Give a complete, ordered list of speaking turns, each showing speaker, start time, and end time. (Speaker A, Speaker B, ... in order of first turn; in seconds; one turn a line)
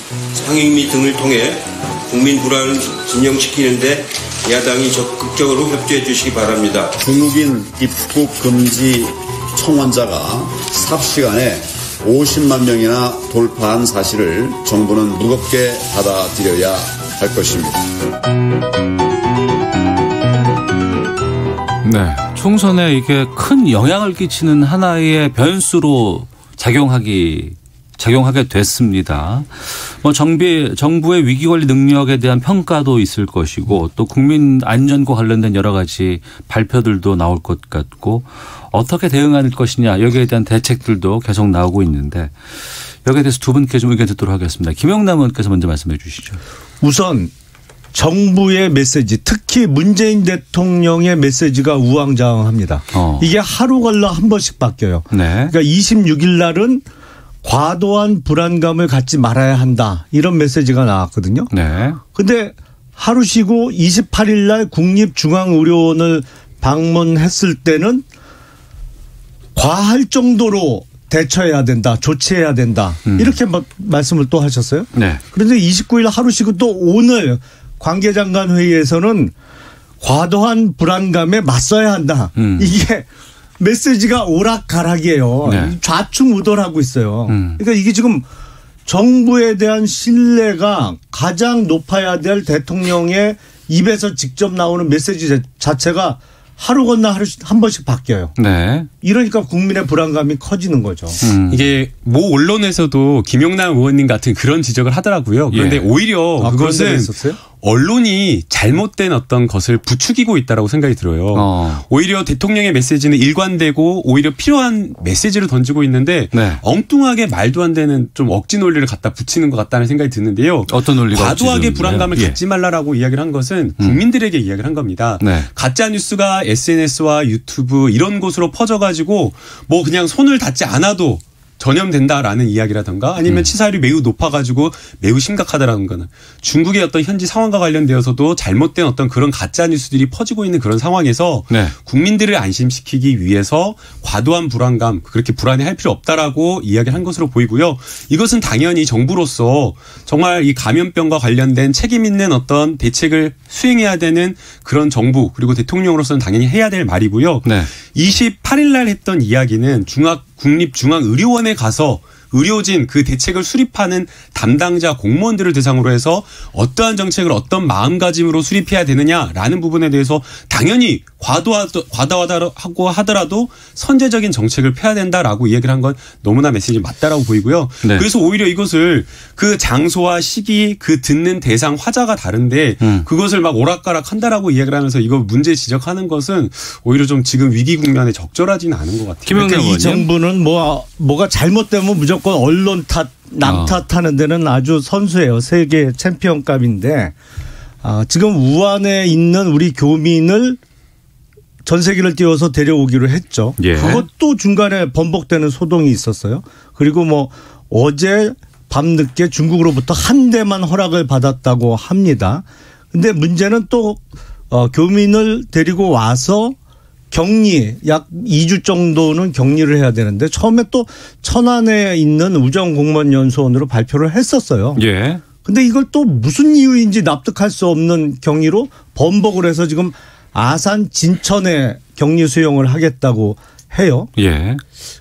Speaker A: 0.3-7.0
Speaker B: 7.0-17.9
Speaker C: 21.8-42.3
Speaker C: 43.0-46.4
Speaker D: 46.8-47.3
Speaker D: 47.9-56.8
Speaker C: 52.9-53.3
Speaker C: 55.1-55.5
Speaker D: 57.4-61.5
Speaker C: 61.5-62.0
Speaker D: 62.1-68.0
Speaker D: 69.5-79.3
Speaker C: 73.1-73.4
Speaker C: 74.9-75.2
Speaker D: 80.0-83.1
Speaker C: 82.4-82.8
Speaker D: 83.6-88.3
Speaker C: 85.5-85.8
Speaker C: 87.3-87.6
Speaker D: 88.8-98.3
Speaker C: 98.4-98.9
Speaker D: 99.0-101.2
Speaker C: 101.2-101.6
Speaker E: 101.5-189.4
Speaker C: 105.5-105.9
Speaker D: 106.4-107.4
Speaker C: 111.3-111.8
Speaker C: 116.3-116.6
Speaker C: 120.7-122.4
Speaker C: 125.2-125.5
Speaker C: 133.3-133.5
Speaker C: 157.4-157.7
Speaker C: 182.8-183.1
Speaker C: 189.3-190.1
Speaker D: 189.3-197.2
Speaker C: 193.4-193.8
Speaker D: 197.8-200.6
Speaker D: 201.7-216.6
Speaker C: 203.6-204.1
Speaker D: 217.1-224.8
Speaker C: 224.8-225.2
Speaker D: 225.4-234.1
Speaker C: 234.2-234.6